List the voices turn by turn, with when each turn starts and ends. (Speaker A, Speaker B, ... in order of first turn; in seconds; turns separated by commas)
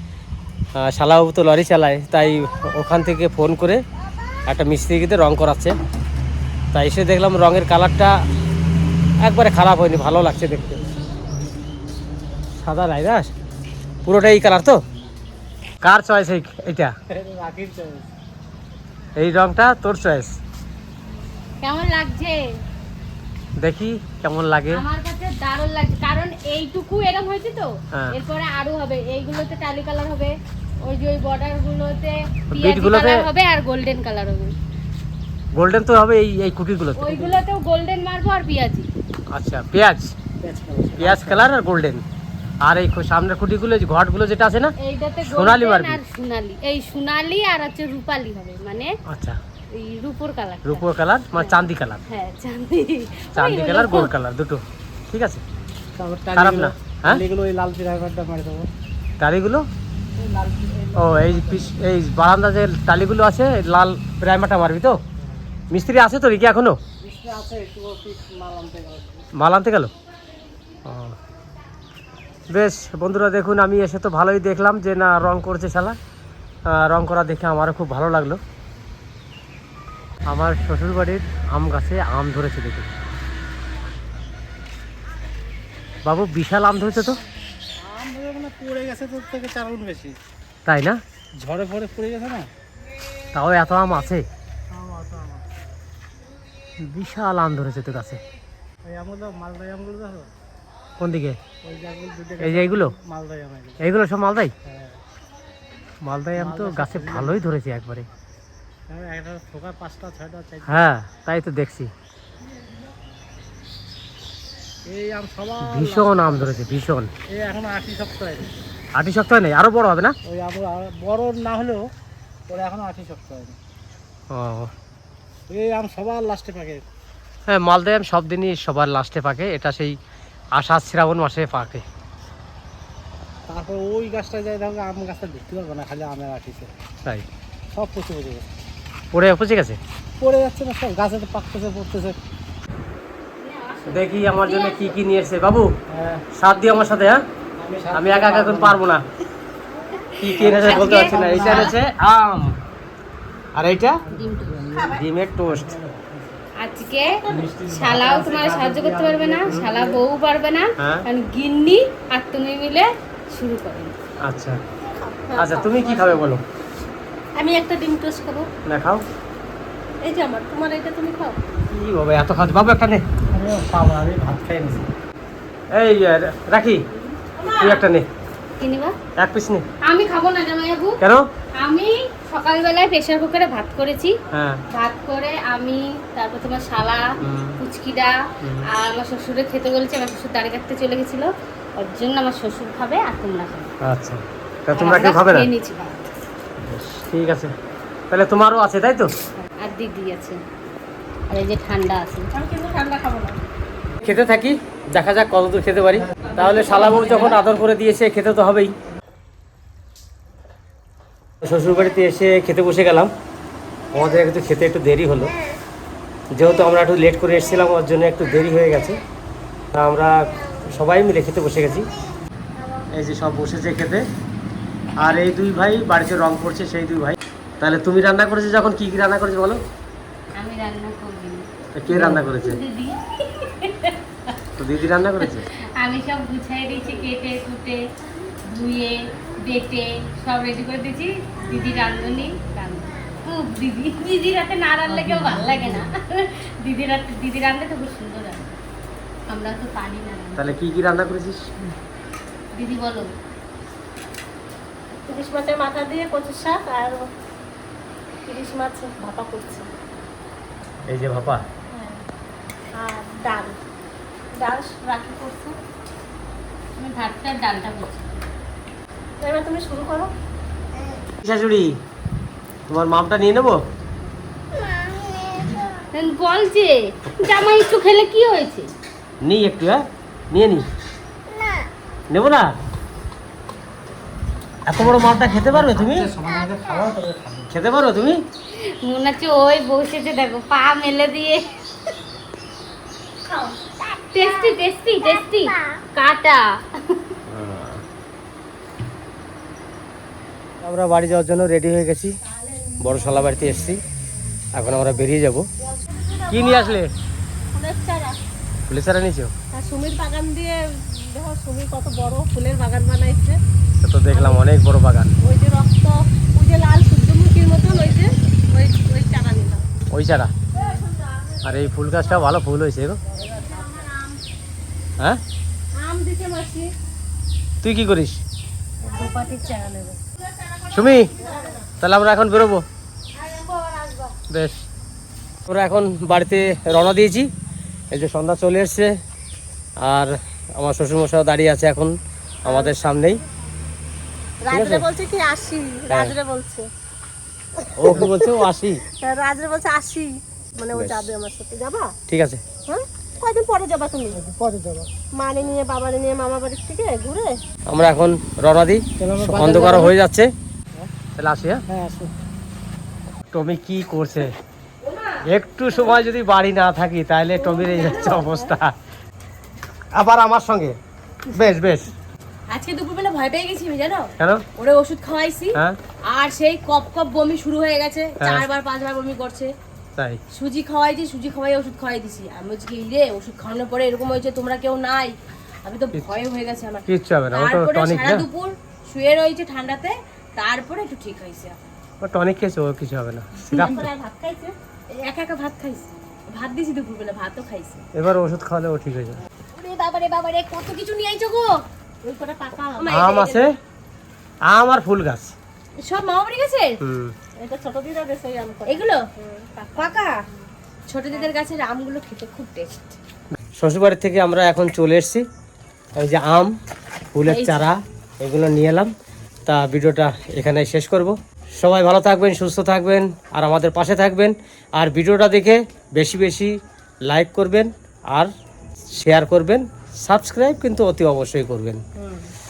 Speaker A: 0.8-3.8, Speaker A: 4.5-5.7, Speaker A: 6.7-8.2, Speaker A: 9.2-10.8, Speaker A: 12.6-13.3, Speaker A: 14.0-14.8, Speaker A: 15.8-16.9, Speaker B: 17.1-18.1, Speaker A: 19.1-20.4, Speaker C: 21.6-22.4, Speaker A: 23.6-24.8, Speaker C: 24.7-34.5, Speaker A: 32.5-33.2, Speaker A: 35.5-37.4, Speaker C: 37.0-38.9, Speaker A: 39.3-40.1, Speaker B: 40.4-41.4, Speaker A: 41.0-42.0, Speaker A: 42.6-44.7, Speaker C: 44.8-48.9, Speaker A: 45.2-46.0, Speaker A: 49.0-49.4, Speaker C: 49.7-54.1, Speaker A: 50.6-52.0, Speaker A: 53.3-55.4, Speaker B: 56.0-58.7, Speaker A: 56.3-57.2, Speaker A: 59.2-59.6, Speaker B: 60.2-61.8, Speaker A: 61.0-65.0, Speaker A: 65.7-66.8, Speaker B: 67.0-69.2, Speaker A: 69.3-69.9, Speaker A: 70.8-71.2, Speaker A: 72.5-76.0, Speaker A: 76.7-78.4, Speaker A: 80.3-82.9, Speaker A: 86.0-87.2, Speaker B: 87.8-90.2, Speaker A: 90.7-91.0, Speaker B: 91.4-92.5, Speaker A: 93.3-94.2, Speaker B: 94.7-95.4, Speaker A: 96.8-98.2, Speaker B: 98.8-100.3, Speaker A: 101.0-101.4, Speaker B: 101.6-103.8, Speaker A: 102.4-103.0, Speaker A: 103.8-104.5, Speaker B: 104.7-105.0, Speaker A: 106.0-108.1, Speaker B: 106.3-107.3, Speaker B: 108.9-110.8, Speaker A: 110.7-111.9, Speaker B: 114.8-116.4, Speaker A: 115.6-117.1, Speaker B: 117.3-118.5, Speaker A: 119.0-120.2, Speaker B: 120.2-121.9, Speaker B: 122.5-123.6, Speaker A: 124.3-124.7, Speaker B: 125.5-126.8, Speaker A: 127.5-130.0, Speaker A: 130.5-131.8, Speaker B: 133.5-136.7, Speaker B: 137.7-138.5, Speaker A: 139.1-139.8, Speaker B: 140.2-142.2, Speaker C: 143.4-145.0, Speaker A: 143.9-145.7, Speaker B: 145.9-146.2, Speaker A: 146.3-147.2, Speaker B: 147.6-148.8, Speaker A: 147.9-149.0, Speaker C: 150.1-151.8, Speaker A: 150.2-152.6, Speaker B: 150.3-151.7, Speaker A: 153.5-154.0, Speaker B: 154.1-156.4, Speaker C: 154.1-154.8, Speaker A: 154.9-155.7, Speaker C: 156.6-163.9, Speaker B: 157.3-160.0, Speaker A: 159.4-159.8, Speaker A: 160.8-161.1, Speaker A: 164.2-164.6, Speaker D: 164.9-165.9, Speaker A: 165.4-166.4, Speaker D: 167.4-168.5, Speaker A: 168.7-169.0, Speaker D: 170.0-171.5, Speaker A: 171.7-173.0, Speaker B: 173.3-174.9, Speaker A: 175.7-176.8, Speaker D: 177.3-177.8, Speaker A: 177.6-178.1, Speaker C: 178.6-178.9, Speaker A: 179.2-179.6, Speaker C: 179.8-181.0, Speaker A: 181.0-181.3, Speaker C: 181.6-184.1, Speaker A: 184.3-184.6, Speaker C: 184.7-187.1, Speaker A: 187.2-187.6, Speaker C: 187.6-193.7, Speaker A: 188.4-188.7, Speaker A: 193.8-195.5, Speaker C: 194.7-196.0, Speaker A: 196.6-197.5, Speaker A: 198.1-199.1, Speaker C: 199.4-200.4, Speaker C: 201.3-202.3, Speaker D: 202.3-203.4, Speaker A: 204.0-208.7, Speaker C: 206.3-207.4, Speaker A: 211.4-213.1, Speaker A: 213.9-215.3, Speaker A: 216.3-219.0, Speaker A: 219.7-221.9, Speaker A: 222.9-224.0, Speaker A: 225.0-229.6, Speaker C: 230.3-234.0, Speaker A: 231.8-232.6, Speaker A: 234.6-235.5, Speaker C: 235.2-237.8, Speaker C: 238.4-248.5, Speaker C: 249.3-250.5, Speaker A: 250.3-251.7, Speaker C: 252.5-253.1, Speaker D: 255.0-257.0, Speaker D: 258.2-259.7, Speaker A: 260.9-261.4, Speaker D: 261.7-262.0, Speaker D: 262.8-263.6, Speaker D: 264.3-265.6, Speaker C: 266.8-268.2, Speaker D: 269.2-270.1, Speaker A: 271.2-271.8, Speaker A: 272.7-273.6, Speaker C: 275.9-278.7, Speaker A: 279.2-280.7, Speaker A: 282.1-282.5, Speaker A: 284.7-286.1, Speaker B: 285.5-287.5, Speaker A: 287.5-288.2, Speaker C: 288.8-291.5, Speaker D: 293.3-293.5, Speaker C: 294.1-297.0, Speaker A: 297.3-297.8, Speaker A: 300.6-302.2, Speaker A: 302.8-303.8, Speaker A: 304.6-305.5, Speaker D: 305.9-306.8, Speaker A: 306.3-306.9, Speaker D: 307.5-308.2, Speaker A: 308.7-309.3, Speaker D: 309.5-313.4, Speaker A: 313.8-315.2, Speaker D: 314.1-314.4, Speaker D: 315.2-319.6, Speaker A: 319.9-320.3, Speaker A: 321.4-323.0, Speaker D: 323.1-324.1, Speaker D: 325.7-326.7, Speaker A: 327.6-328.2, Speaker C: 328.9-330.0, Speaker D: 330.4-331.7, Speaker A: 330.7-331.1, Speaker A: 331.8-332.6, Speaker D: 333.2-334.1, Speaker A: 334.3-334.6, Speaker A: 335.5-337.3, Speaker A: 337.9-338.9, Speaker A: 339.8-341.9, Speaker D: 342.4-342.8, Speaker A: 342.4-343.2, Speaker D: 344.4-346.6, Speaker A: 344.5-344.9, Speaker A: 347.8-348.8, Speaker D: 347.9-348.3, Speaker D: 349.0-351.9, Speaker A: 350.7-351.1, Speaker A: 352.1-352.4, Speaker D: 352.7-354.2, Speaker B: 354.1-354.9, Speaker D: 355.1-357.4, Speaker A: 357.7-360.3, Speaker B: 359.0-359.9, Speaker A: 361.1-361.6, Speaker B: 361.7-362.1, Speaker A: 363.3-364.3, Speaker A: 365.2-368.7, Speaker D: 367.4-368.2, Speaker C: 367.6-368.4, Speaker A: 369.9-370.8, Speaker A: 371.3-371.9, Speaker C: 372.5-375.6, Speaker A: 374.2-374.4, Speaker C: 376.1-379.5, Speaker A: 378.2-378.5, Speaker C: 380.3-391.6, Speaker A: 386.9-388.2, Speaker A: 392.0-393.9, Speaker D: 393.6-394.5, Speaker C: 394.9-397.8, Speaker A: 397.9-399.2, Speaker C: 399.6-401.6, Speaker D: 402.0-402.9, Speaker C: 402.8-403.4, Speaker A: 402.9-403.5, Speaker A: 404.5-405.3, Speaker C: 405.8-406.8, Speaker A: 406.8-407.1, Speaker D: 407.4-410.1, Speaker C: 408.6-409.0, Speaker C: 409.8-410.2, Speaker C: 410.9-412.9, Speaker A: 413.6-415.2, Speaker A: 416.0-416.5, Speaker A: 417.1-418.9, Speaker C: 417.2-417.7, Speaker A: 419.4-428.3, Speaker A: 429.0-431.8